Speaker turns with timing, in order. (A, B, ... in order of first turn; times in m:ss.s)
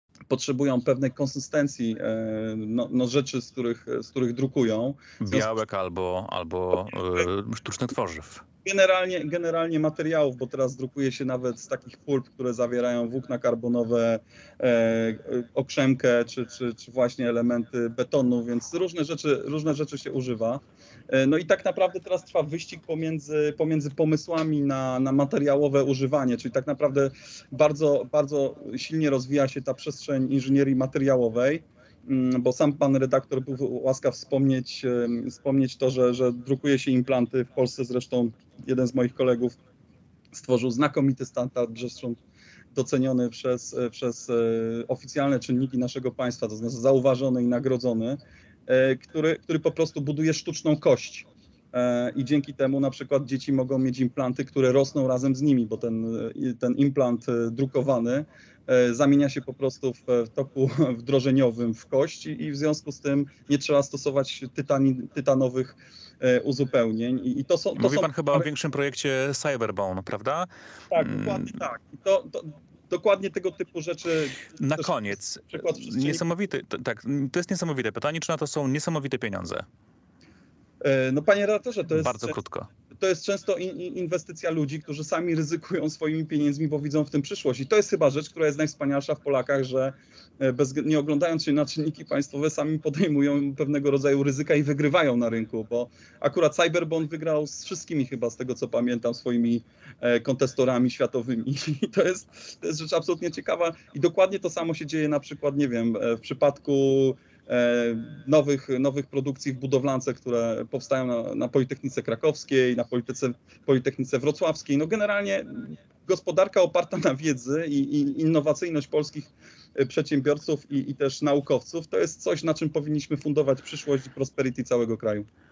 0:00.3-0:05.5 A
0:05.2-0:08.4 B
0:08.6-0:39.6 A
0:40.3-0:42.2 A
0:42.7-1:08.5 A
1:07.8-1:11.5 B
1:10.9-1:16.2 A
1:14.6-1:19.6 B
1:20.8-1:22.4 A
1:22.0-1:22.7 B
1:23.0-2:05.3 A